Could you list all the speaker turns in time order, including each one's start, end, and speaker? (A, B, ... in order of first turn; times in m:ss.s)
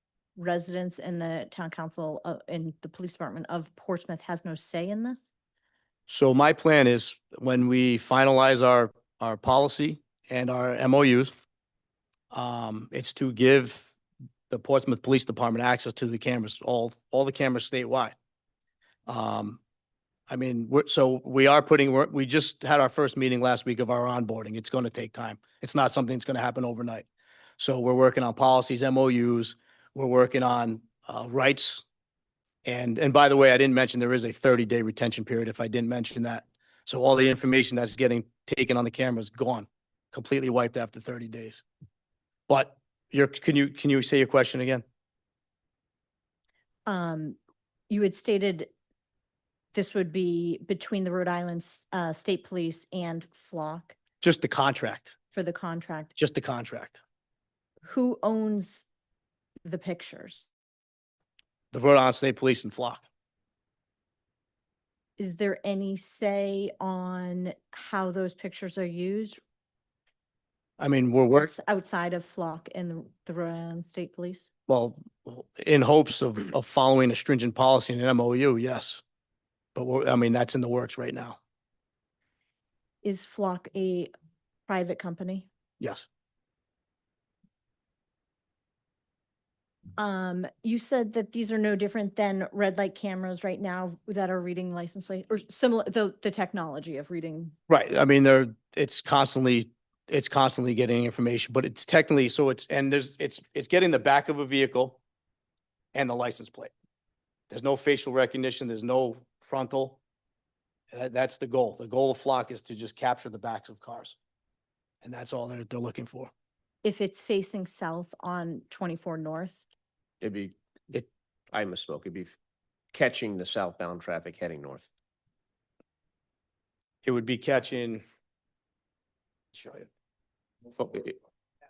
0:00.4-0:05.3 A
0:06.1-0:11.3 B
0:12.3-0:13.9 B
0:14.5-0:18.2 B
0:19.1-0:19.6 B
0:20.3-0:27.1 B
0:27.6-0:31.8 B
0:32.6-0:41.6 B
0:42.5-0:44.8 B
0:46.9-0:47.4 A
0:47.9-0:48.7 A
0:49.7-0:54.0 A
0:54.2-0:55.2 B
0:55.3-0:56.2 A
0:56.2-0:57.0 B
0:57.8-0:58.9 A
0:59.6-1:00.5 A
1:01.7-1:03.0 B
1:05.2-1:09.4 A
1:10.8-1:11.5 B
1:11.4-1:14.5 A
1:14.7-1:19.0 B
1:19.8-1:21.4 B
1:23.0-1:24.1 A
1:24.7-1:25.5 A
1:25.8-1:26.1 B
1:30.0-1:37.6 A
1:37.7-1:45.0 B
1:45.9-1:46.7 B
1:47.5-1:50.0 B
1:50.9-1:54.2 B
1:55.0-1:56.3 B
1:56.8-1:59.6 A
2:00.2-2:00.6 C
2:01.5-2:02.4 C
2:02.9-2:04.9 C
2:07.0-2:08.0 B
2:09.5-2:09.9 B
2:10.7-2:11.2 C